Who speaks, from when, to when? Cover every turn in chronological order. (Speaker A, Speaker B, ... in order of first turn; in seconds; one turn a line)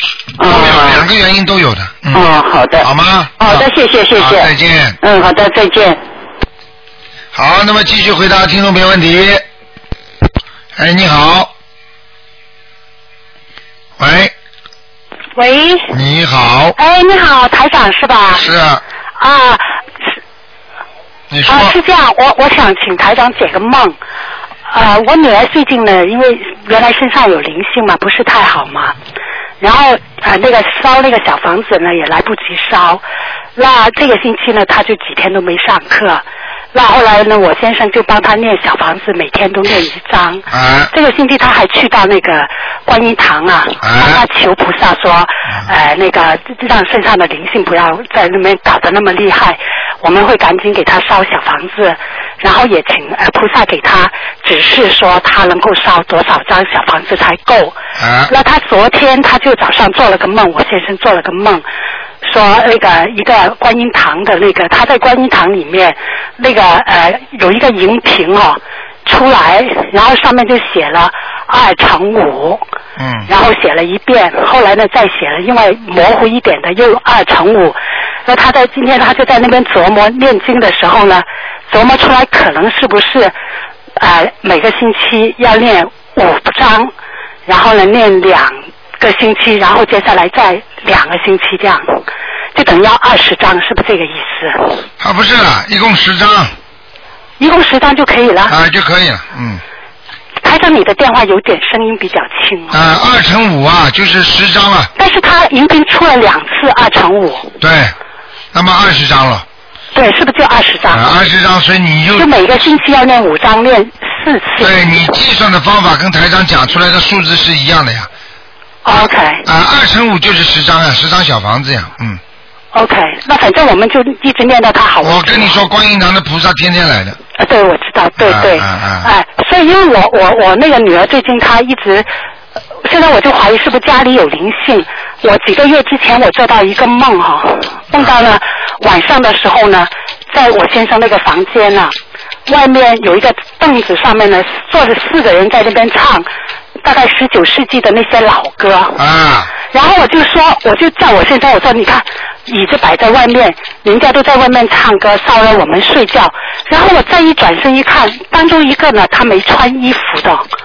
Speaker A: 0.4-1.1
Speaker B: 0.4-2.2
Speaker A: 2.1-4.5
Speaker B: 2.8-5.0
Speaker A: 5.0-6.0
Speaker B: 7.3-9.4
Speaker B: 10.8-11.5
Speaker B: 14.0-14.3
Speaker C: 15.4-15.9
Speaker B: 15.9-16.8
Speaker C: 16.8-18.5
Speaker B: 18.4-18.8
Speaker C: 19.2-19.7
Speaker B: 21.3-21.8
Speaker C: 21.5-24.0
Speaker C: 24.7-29.0
Speaker C: 29.6-33.0
Speaker C: 33.6-57.8
Speaker B: 40.5-40.9
Speaker B: 43.8-44.2
Speaker B: 58.0-58.3
Speaker C: 58.3-61.6
Speaker C: 62.2-72.6
Speaker B: 73.0-73.3
Speaker C: 73.3-83.3
Speaker C: 84.0-86.9
Speaker C: 87.5-92.0
Speaker C: 92.5-94.8
Speaker B: 95.0-96.5
Speaker C: 97.4-98.5
Speaker B: 98.5-99.6
Speaker C: 100.4-102.8
Speaker B: 102.7-104.9
Speaker C: 105.0-107.5
Speaker B: 107.6-107.9
Speaker B: 108.5-109.5
Speaker C: 110.0-111.2
Speaker B: 110.9-112.3
Speaker C: 112.2-115.1
Speaker B: 114.6-118.1
Speaker C: 118.8-119.5
Speaker B: 118.9-122.2
Speaker C: 122.7-125.6
Speaker B: 125.0-127.2
Speaker C: 127.4-132.1
Speaker B: 128.2-129.1
Speaker C: 132.8-141.9
Speaker C: 142.5-146.3
Speaker C: 146.8-149.0
Speaker B: 149.0-149.5
Speaker C: 149.6-160.5